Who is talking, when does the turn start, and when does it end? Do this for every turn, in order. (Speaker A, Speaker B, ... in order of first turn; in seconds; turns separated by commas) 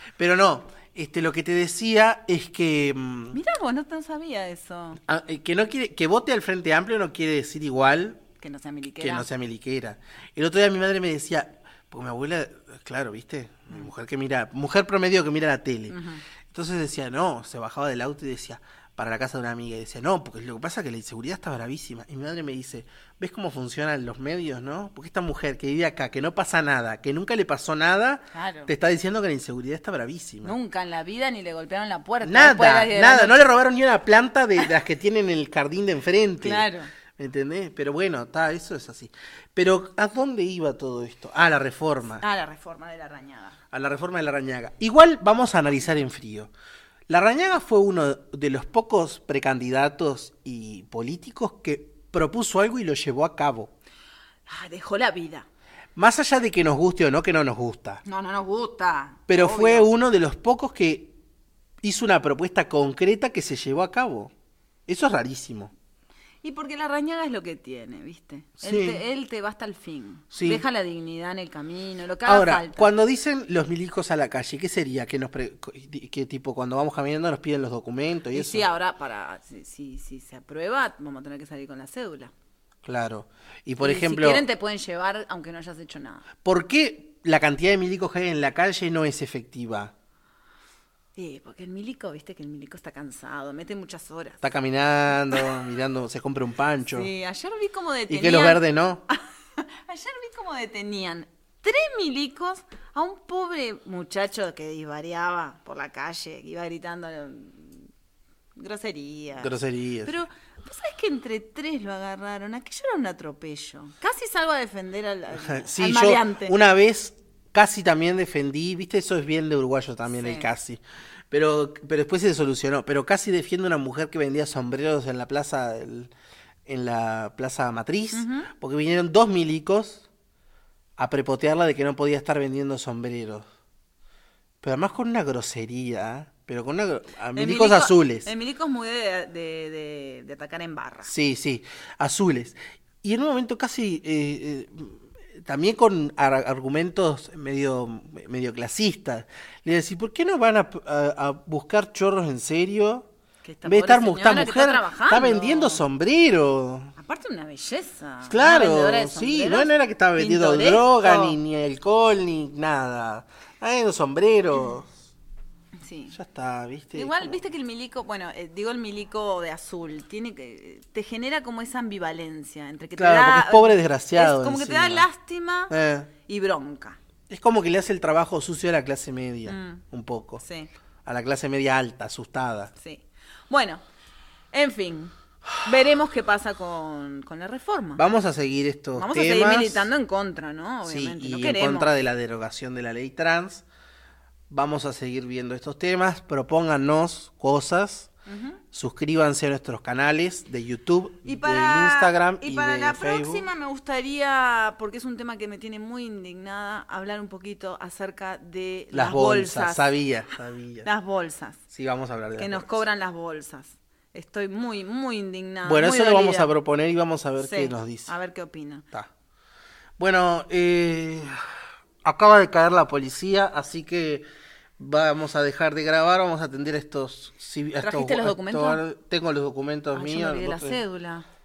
Speaker A: 0.2-3.4, Speaker B: 3.3-5.0, Speaker A: 5.1-8.2, Speaker B: 8.4-9.3, Speaker A: 9.0-16.0, Speaker B: 15.9-16.2, Speaker A: 16.5-30.6, Speaker B: 28.3-28.7, Speaker B: 30.4-33.5, Speaker A: 32.2-42.2, Speaker B: 36.4-36.9, Speaker B: 42.2-43.6, Speaker A: 43.7-46.5, Speaker A: 47.1-53.7, Speaker B: 54.5-55.5, Speaker A: 56.0-58.0, Speaker B: 58.0-59.9, Speaker A: 59.3-61.1, Speaker A: 61.8-64.3, Speaker A: 64.9-65.7, Speaker B: 66.4-72.9, Speaker A: 68.6-69.0, Speaker A: 70.3-70.6, Speaker A: 72.2-78.7, Speaker B: 78.3-82.3, Speaker A: 82.8-84.4, Speaker B: 83.8-86.2, Speaker A: 86.4-89.9, Speaker B: 91.2-94.5, Speaker A: 94.4-97.1, Speaker B: 96.9-107.9, Speaker A: 98.1-99.0, Speaker B: 108.6-109.5, Speaker A: 109.4-110.2, Speaker B: 110.0-116.5, Speaker A: 115.5-126.1, Speaker B: 120.1-120.5, Speaker A: 126.7-130.1, Speaker B: 128.1-128.5, Speaker A: 131.0-133.5, Speaker A: 134.6-138.3, Speaker B: 137.4-141.1, Speaker A: 141.0-153.1, Speaker B: 153.4-155.8, Speaker A: 153.7-156.9, Speaker B: 157.0-161.4, Speaker A: 158.2-164.9, Speaker B: 165.8-166.2, Speaker A: 166.1-167.4, Speaker B: 166.9-175.7, Speaker A: 173.0-175.1, Speaker A: 175.7-176.1, Speaker B: 176.3-177.0, Speaker A: 177.3-180.4, Speaker B: 179.4-179.8, Speaker B: 180.4-180.7, Speaker A: 181.1-182.7, Speaker B: 182.8-183.8, Speaker B: 184.5-188.0, Speaker A: 188.0-189.9, Speaker B: 188.9-191.9, Speaker A: 190.8-193.7, Speaker A: 194.5-198.1, Speaker B: 198.3-198.6, Speaker A: 198.7-203.5, Speaker B: 201.2-209.9, Speaker A: 208.9-210.9, Speaker B: 210.8-211.6, Speaker A: 211.7-212.8, Speaker B: 212.4-216.5, Speaker A: 215.7-218.1, Speaker B: 217.4-218.9, Speaker A: 220.0-221.4, Speaker A: 222.0-224.2, Speaker A: 224.8-230.8, Speaker B: 227.8-228.8, Speaker B: 229.9-231.3